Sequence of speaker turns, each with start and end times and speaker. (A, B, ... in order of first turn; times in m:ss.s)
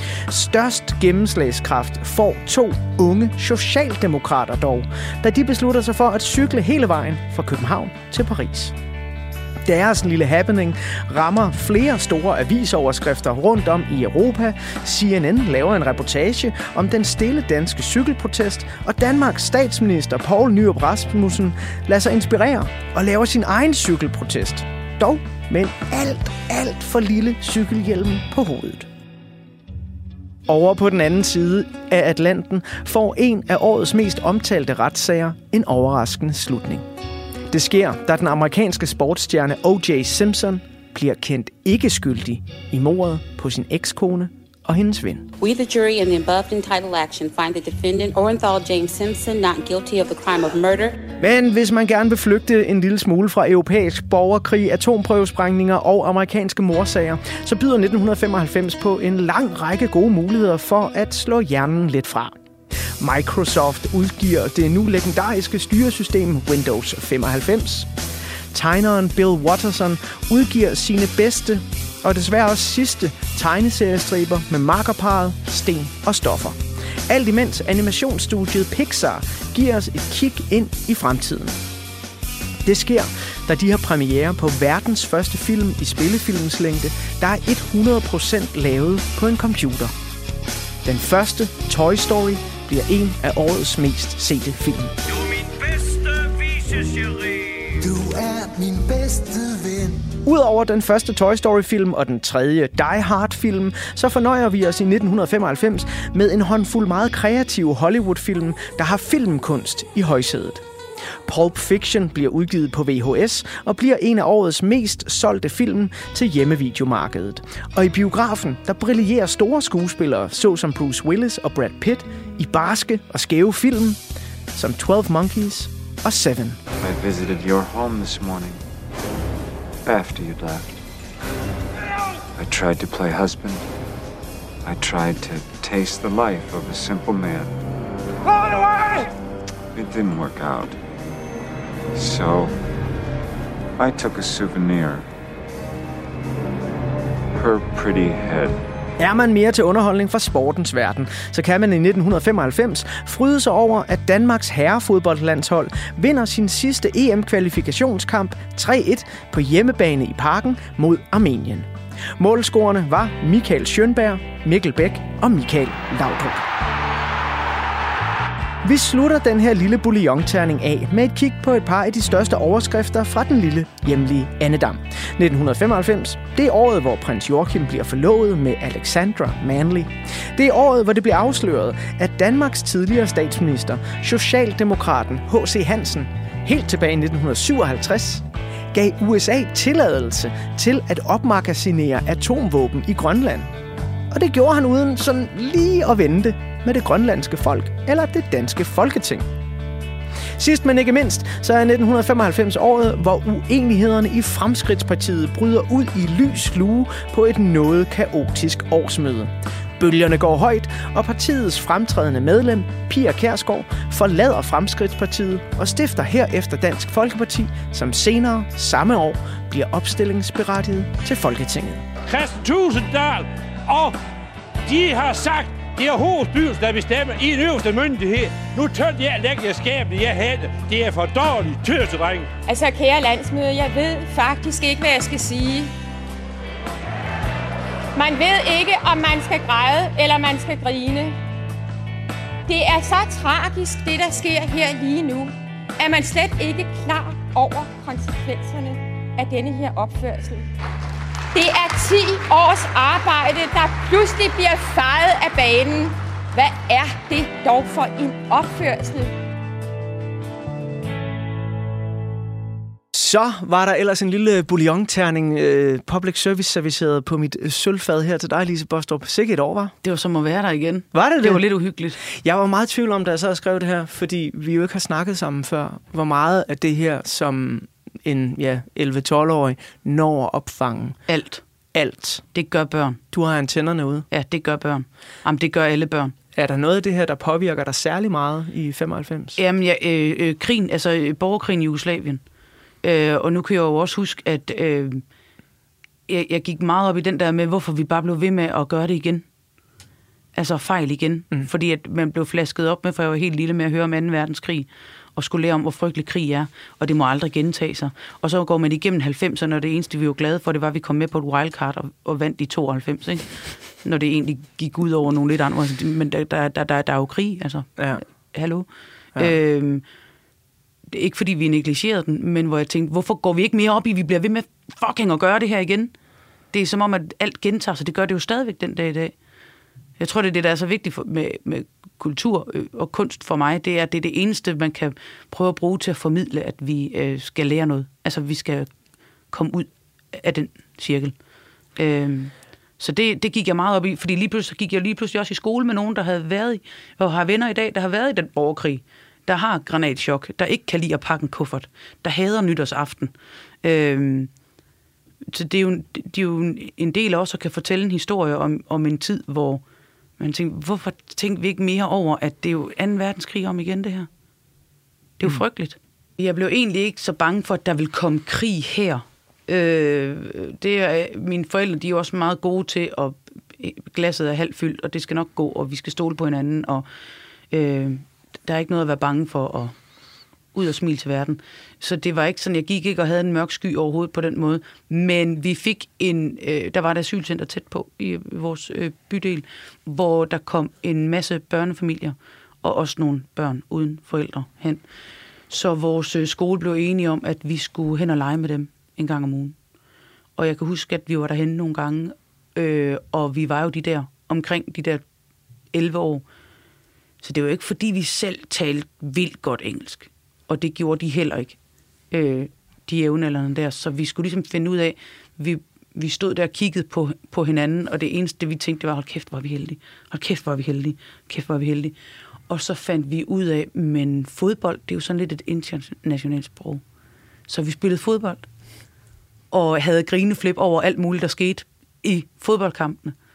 0:00.3-0:08.8 A
0:09.7-0:28.9 A
0:30.5-0:36.8 A
0:37.5-0:45.3 A
0:45.4-0:51.0 B
0:51.2-1:02.4 A
1:03.0-1:07.9 A
1:08.5-1:21.6 A
1:22.6-1:29.9 A
1:30.8-1:34.9 A
1:35.5-1:36.3 C
1:37.8-1:40.2 C
1:40.2-1:50.6 A
1:51.3-2:04.0 A
2:04.6-2:06.6 A
2:06.8-2:08.6 D
2:09.8-2:10.8 D
2:12.4-2:13.7 D
2:14.6-2:17.5 D
2:18.2-2:19.1 E
2:19.7-2:20.8 D
2:21.9-2:22.6 D
2:23.8-2:25.1 D
2:27.3-2:28.6 D
2:29.0-2:46.5 A
2:48.6-3:13.5 A
3:14.1-3:19.3 A
3:20.4-3:41.8 A
3:42.1-3:44.0 E
3:44.7-3:52.3 E
3:52.5-3:55.7 F
3:58.0-4:01.2 F
4:02.5-4:10.5 F
4:11.3-4:19.1 F
4:22.9-4:29.7 A
4:29.8-4:32.0 G
4:30.9-4:31.4 A
4:32.0-4:41.0 A
4:41.1-4:41.4 G
4:41.7-4:42.2 A
4:42.3-4:43.0 G
4:43.1-4:44.1 A
4:44.1-4:46.2 G
4:46.4-4:49.4 A
4:49.4-4:52.2 G
4:52.8-4:55.0 G
4:56.1-4:59.2 G
5:00.4-5:19.8 G
5:20.9-5:25.9 G
5:26.5-5:29.2 G
5:30.0-5:38.7 G
5:39.3-5:41.2 G
5:41.8-5:54.3 G
5:55.3-5:59.6 G
6:00.2-6:04.1 G
6:05.2-6:16.9 G
6:17.5-6:19.8 G
6:20.5-6:34.8 G
6:35.5-6:39.6 G
6:40.4-6:45.0 G
6:45.7-6:46.2 G
6:47.2-6:51.6 G
6:52.1-7:02.0 G
7:02.5-7:06.8 G
7:07.5-7:08.5 G
7:09.5-7:13.2 G